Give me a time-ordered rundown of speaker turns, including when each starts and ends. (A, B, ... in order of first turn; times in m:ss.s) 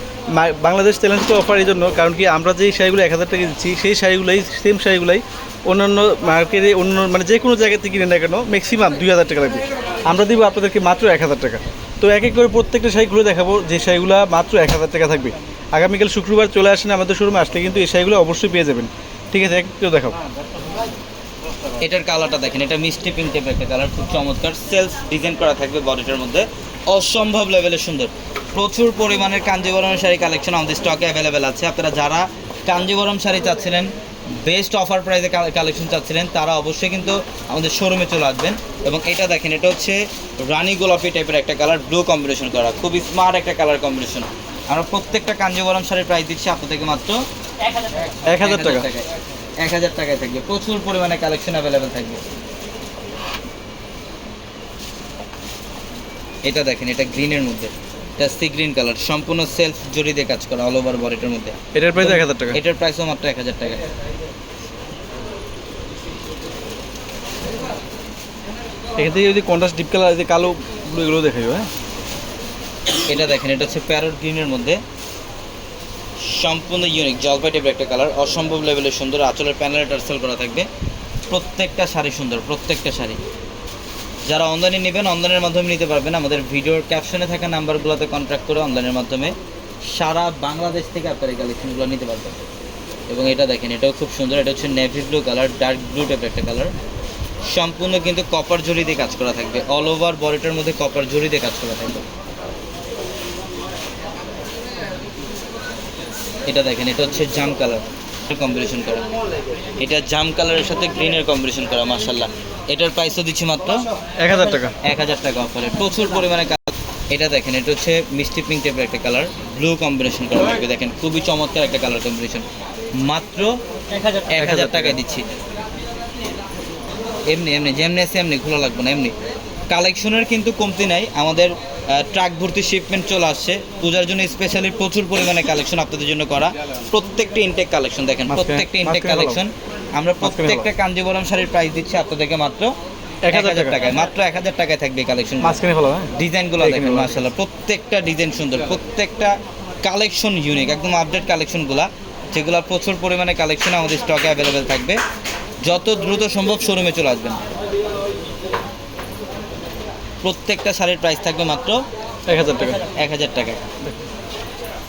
0:00.3-0:20.2 A
0:21.8-0:47.2 B
0:48.3-0:48.9 A
0:48.4-0:49.0 B
0:49.6-0:52.2 B
0:56.4-1:03.8 B
1:01.7-1:02.6 A
1:09.0-1:11.7 A
1:13.1-1:14.8 B
1:16.3-1:20.7 B
1:21.3-1:23.2 B
1:24.3-1:29.3 B
1:29.9-1:32.4 B
1:33.1-1:36.7 B
1:37.5-1:42.0 B
1:46.5-1:49.0 B
1:49.8-1:53.8 B
1:54.2-1:54.7 A
1:54.8-2:02.4 B
2:03.0-2:03.5 B
2:04.3-2:05.2 B
2:04.4-2:05.0 A
2:07.3-2:09.1 B
2:09.7-2:22.7 B
2:18.3-2:19.4 A
2:20.2-2:20.7 A
2:23.2-2:23.8 A
2:23.3-2:25.6 B
2:25.4-2:27.2 A
2:26.1-2:29.3 B
2:29.8-2:35.0 B
2:35.6-2:37.4 B
2:40.2-2:41.8 B
2:42.3-2:42.9 A
2:43.0-2:43.6 B